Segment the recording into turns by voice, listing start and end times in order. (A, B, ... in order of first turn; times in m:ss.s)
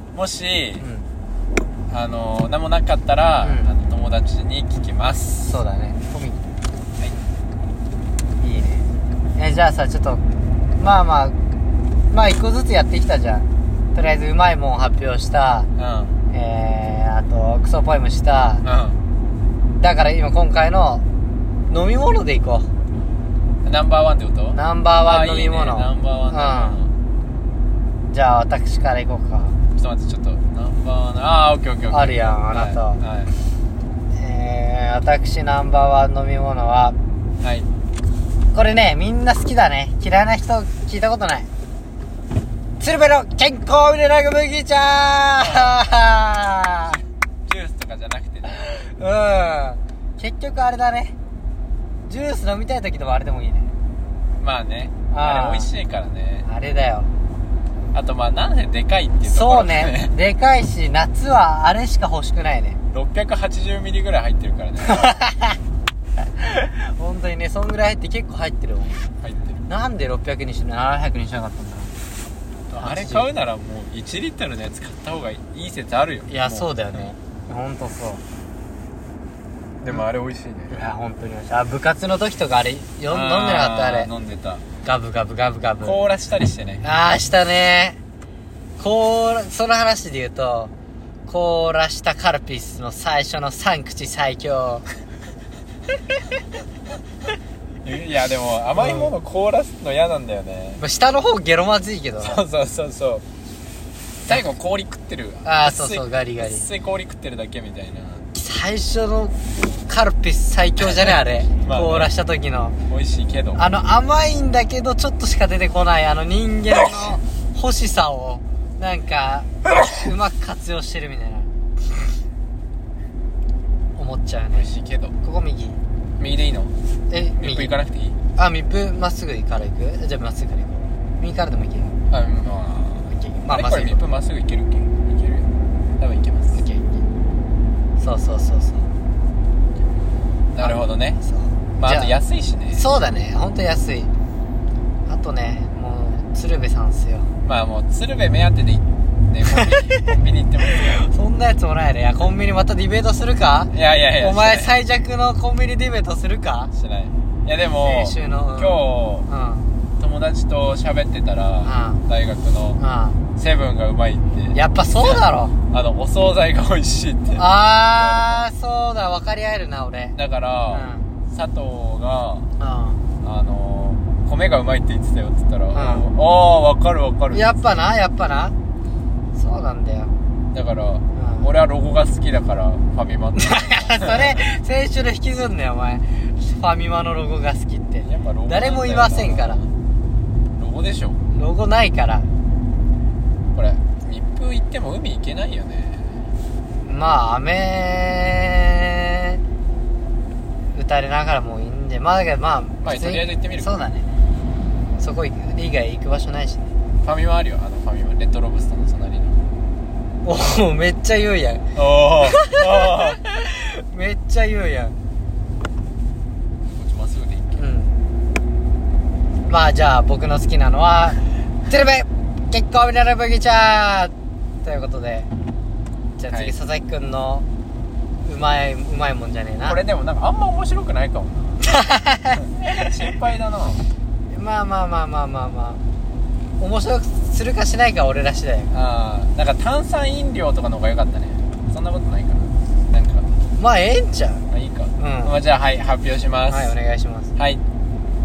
0:00.1-0:00.8 A
0:00.8-0:01.1 B
0:01.9-0:05.5 A
0:03.4-0:03.7 B
0:05.4-0:06.5 B
0:08.4-0:10.2 B
0:10.8-0:11.4 B
0:12.1-0:15.7 B
0:15.8-0:16.2 A
0:16.3-0:18.6 B
0:18.6-0:19.0 A
0:19.8-0:21.0 B
0:21.7-0:22.7 B
0:23.6-0:26.9 A
0:24.5-0:26.8 B
0:28.1-0:29.6 B
0:29.8-0:33.3 A
0:31.9-0:33.0 B
0:34.1-0:37.0 B
0:37.4-0:37.7 A
0:38.5-0:41.5 B
0:42.8-0:47.0 B
0:45.4-0:45.8 A
0:46.9-0:48.6 A
0:48.4-0:51.1 B
0:52.0-0:53.7 B
0:54.4-0:56.5 A
0:55.1-0:55.7 B
0:56.4-0:57.1 B
0:57.9-1:00.1 A
0:59.2-1:02.8 B
1:02.9-1:05.2 A
1:04.8-1:05.6 B
1:06.4-1:09.1 B
1:09.2-1:09.6 A
1:09.7-1:11.9 B
1:12.7-1:17.0 A
1:12.8-1:13.3 B
1:16.3-1:18.2 B
1:19.8-1:20.8 A
1:20.7-1:24.1 B
1:23.1-1:24.6 A
1:24.8-1:26.0 B
1:25.8-1:26.8 A
1:26.8-1:28.0 B
1:28.8-1:30.7 B
1:31.3-1:34.8 B
1:37.8-1:40.8 A
1:38.8-1:39.1 B
1:40.8-1:42.4 B
1:42.2-1:43.2 A
1:44.2-1:48.3 A
1:45.4-1:46.6 B
1:48.3-1:49.4 B
1:49.9-1:52.8 B
1:50.8-1:52.1 A
1:52.9-1:53.6 A
1:53.6-2:01.5 B
2:04.0-2:04.7 B
2:04.5-2:05.1 A
2:05.2-2:05.8 B
2:06.2-2:06.7 A
2:07.1-2:07.8 B
2:07.4-2:08.2 A
2:08.4-2:12.0 B
2:12.1-2:16.6 A
2:13.1-2:14.0 B
2:16.5-2:17.0 B
2:18.0-2:18.9 B
2:20.5-2:21.2 A
2:20.6-2:22.1 B
2:21.8-2:22.8 A
2:22.7-2:24.1 B
2:25.1-2:27.3 B
2:27.4-2:31.1 A
2:29.4-2:36.7 B
2:33.7-2:34.7 A
2:36.7-2:39.3 A
2:37.8-2:39.7 B
2:40.0-2:42.8 A
2:41.6-2:42.0 B
2:42.8-2:43.2 B
2:43.4-2:48.4 A
2:44.5-2:45.5 B
2:47.4-2:50.2 B
2:50.1-2:52.5 A
2:50.7-2:51.1 B
2:52.6-2:53.0 B
2:53.2-2:57.6 A
2:55.7-2:56.0 B
2:57.3-2:58.5 B
2:59.3-3:00.1 B
3:00.5-3:04.4 A
3:01.1-3:01.5 B
3:03.4-3:09.6 B
3:08.0-3:09.7 A
3:10.5-3:11.2 A
3:11.3-3:12.3 B
3:13.5-3:16.2 A
3:16.8-3:19.4 B
3:20.7-3:24.1 B
3:22.8-3:23.8 A
3:25.0-3:26.7 B
3:27.0-3:29.4 A
3:30.2-3:31.6 B
3:31.7-3:33.2 A
3:32.2-3:34.9 B
3:36.7-3:37.6 A
3:37.5-3:38.0 B
3:39.5-3:44.1 B
3:44.6-3:45.3 B
3:46.2-3:47.4 B
3:48.2-3:49.8 B
3:49.6-3:51.6 A
3:51.6-3:53.1 B
3:52.4-3:53.8 A
3:54.3-3:55.8 B
3:56.6-3:58.7 B
3:58.7-4:03.3 A
4:03.6-4:04.4 B
4:04.5-4:06.7 A
4:05.0-4:05.4 B
4:06.5-4:07.3 B
4:07.4-4:07.6 A